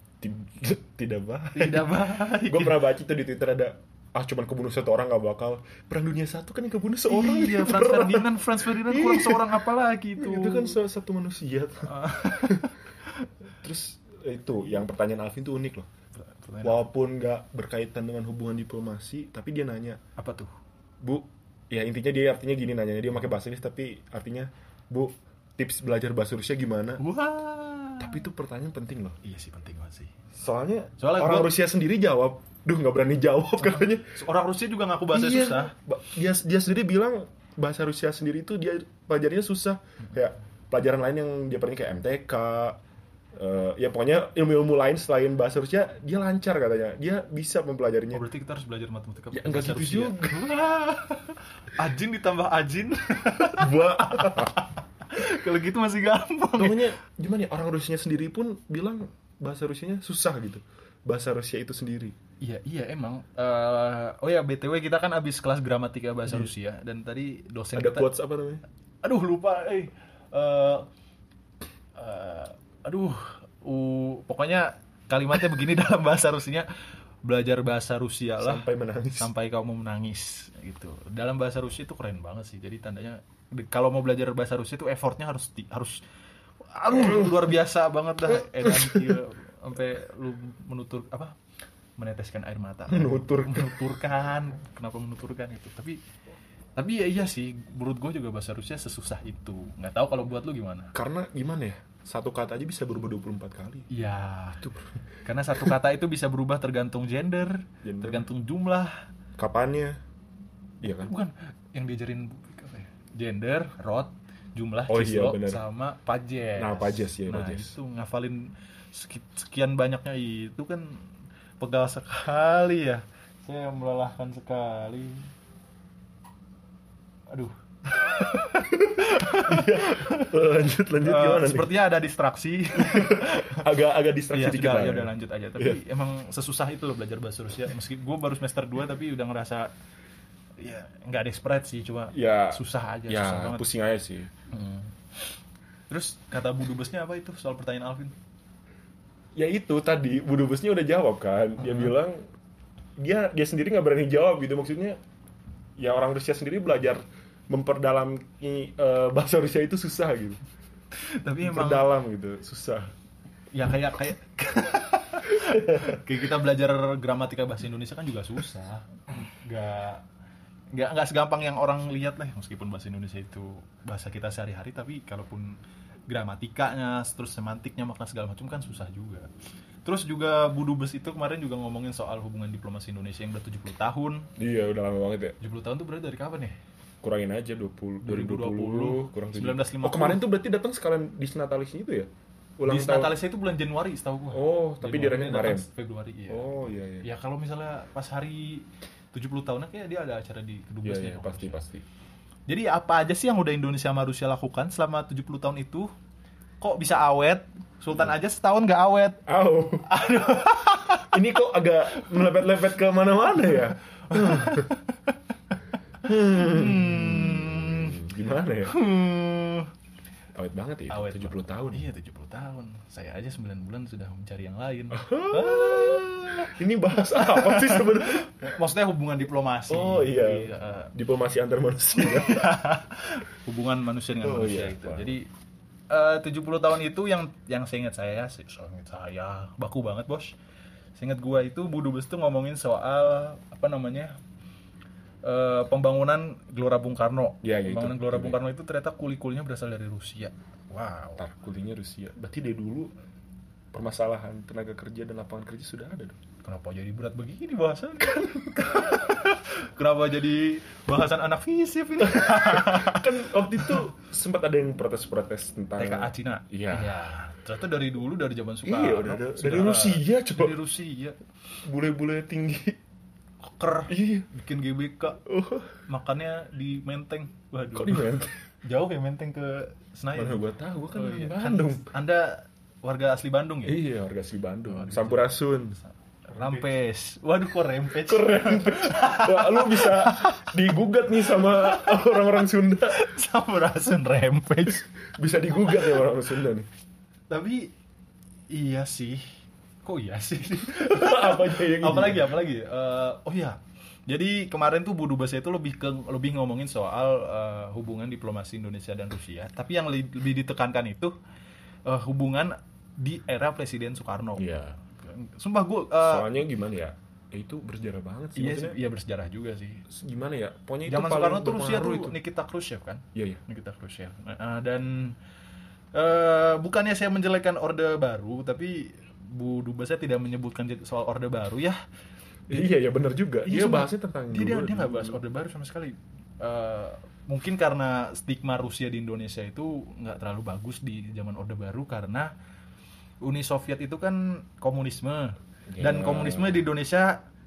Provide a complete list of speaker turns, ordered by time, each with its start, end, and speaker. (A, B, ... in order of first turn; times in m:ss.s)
0:00.2-0:09.6 A
0:01.5-0:02.8 B
0:07.0-0:10.8 B
0:10.2-0:12.7 A
0:11.9-0:13.3 B
0:13.6-0:15.9 A
0:16.2-0:16.9 B
0:16.6-0:20.0 A
0:20.2-0:20.5 B
0:21.0-0:27.0 A
0:27.0-0:28.2 B
0:28.0-0:29.2 A
0:29.2-0:30.1 B
0:30.3-0:34.2 A
0:31.0-0:31.5 B
0:33.6-0:35.8 B
0:35.1-0:42.8 A
0:43.4-0:48.3 A
0:48.1-0:56.9 B
0:49.3-0:50.6 A
0:53.5-0:54.6 A
0:56.6-1:02.2 A
1:02.4-1:08.1 B
1:06.3-1:06.5 A
1:07.8-1:08.6 A
1:09.0-1:10.9 B
1:12.0-1:16.7 B
1:17.2-1:18.7 B
1:18.4-1:19.3 A
1:19.2-1:26.0 B
1:26.6-1:31.4 B
1:26.9-1:27.6 A
1:28.4-1:29.2 A
1:32.0-1:36.0 B
1:32.9-1:34.0 A
1:36.8-1:40.9 B
1:40.9-1:43.9 A
1:43.9-1:44.6 B
1:44.6-1:44.9 A
1:45.2-1:48.9 B
1:47.8-1:48.3 A
1:49.4-1:50.0 A
1:50.8-1:51.1 A
1:50.9-2:01.1 B
1:54.9-1:55.6 A
1:56.6-1:57.8 A
2:01.6-2:05.3 B
2:07.3-2:10.4 B
2:09.3-2:11.8 A
2:11.0-2:13.7 B
2:12.7-2:15.8 A
2:14.3-2:19.7 B
2:20.6-2:23.7 B
2:22.1-2:24.3 A
2:24.5-2:24.9 B
2:25.9-2:28.2 B
2:29.4-2:32.2 A
2:31.6-2:31.9 B
2:33.0-2:35.0 A
2:35.8-2:40.4 A
2:41.0-2:41.9 B
2:41.4-2:42.9 A
2:43.5-2:50.0 B
2:45.3-2:46.0 A
2:50.7-2:55.6 B
2:56.1-2:59.3 B
2:59.8-3:04.3 B
3:04.4-3:05.4 A
3:05.4-3:06.6 B
3:07.0-3:13.2 A
3:08.0-3:10.2 B
3:12.6-3:21.6 B
3:14.3-3:15.7 A
3:16.3-3:17.1 A
3:20.8-3:21.8 A
3:22.5-3:25.9 B
3:26.6-3:29.2 B
3:29.3-3:30.0 A
3:29.9-3:31.2 B
3:30.9-3:34.8 A
3:32.0-3:32.4 B
3:33.4-3:38.0 B
3:36.0-3:38.8 A
3:38.6-3:39.7 B
3:40.4-3:41.9 A
3:40.9-3:50.9 B
3:44.9-3:48.5 A
3:49.7-3:52.5 A
3:52.0-3:55.3 B
3:54.2-3:55.2 A
3:55.9-4:00.4 B
4:01.0-4:04.2 B
4:05.2-4:11.2 B
4:07.4-4:08.4 A
4:11.2-4:12.9 A
4:13.7-4:16.2 A
4:16.4-4:23.8 B
4:18.1-4:18.7 A
4:22.0-4:27.0 A
4:25.8-4:31.2 B
4:28.6-4:30.6 A
4:31.6-4:32.8 A
4:33.4-4:35.2 B
4:33.9-4:34.3 A
4:35.3-4:35.8 A
4:35.8-4:38.1 B
4:37.7-4:38.4 A
4:38.6-4:40.4 B
4:40.2-4:41.9 A
4:40.9-4:43.8 B
4:43.6-4:45.8 A
4:44.7-4:50.5 B
4:46.3-4:46.7 A
4:47.9-4:53.1 A
4:51.3-4:52.4 B
4:52.9-4:54.9 B
4:54.7-4:56.7 A
4:57.3-4:57.7 B
4:58.5-4:59.3 B
4:59.8-5:11.1 B
5:00.7-5:02.4 A
5:11.9-5:16.4 B
5:14.4-5:14.8 A
5:16.1-5:18.8 A
5:18.4-5:19.8 B
5:19.9-5:22.2 A
5:20.9-5:25.2 B
5:23.2-5:23.4 A
5:25.9-5:31.8 B
5:32.5-5:35.2 A
5:32.5-5:32.8 B
5:33.4-5:42.3 B
5:43.2-5:47.2 B
5:45.7-5:46.7 A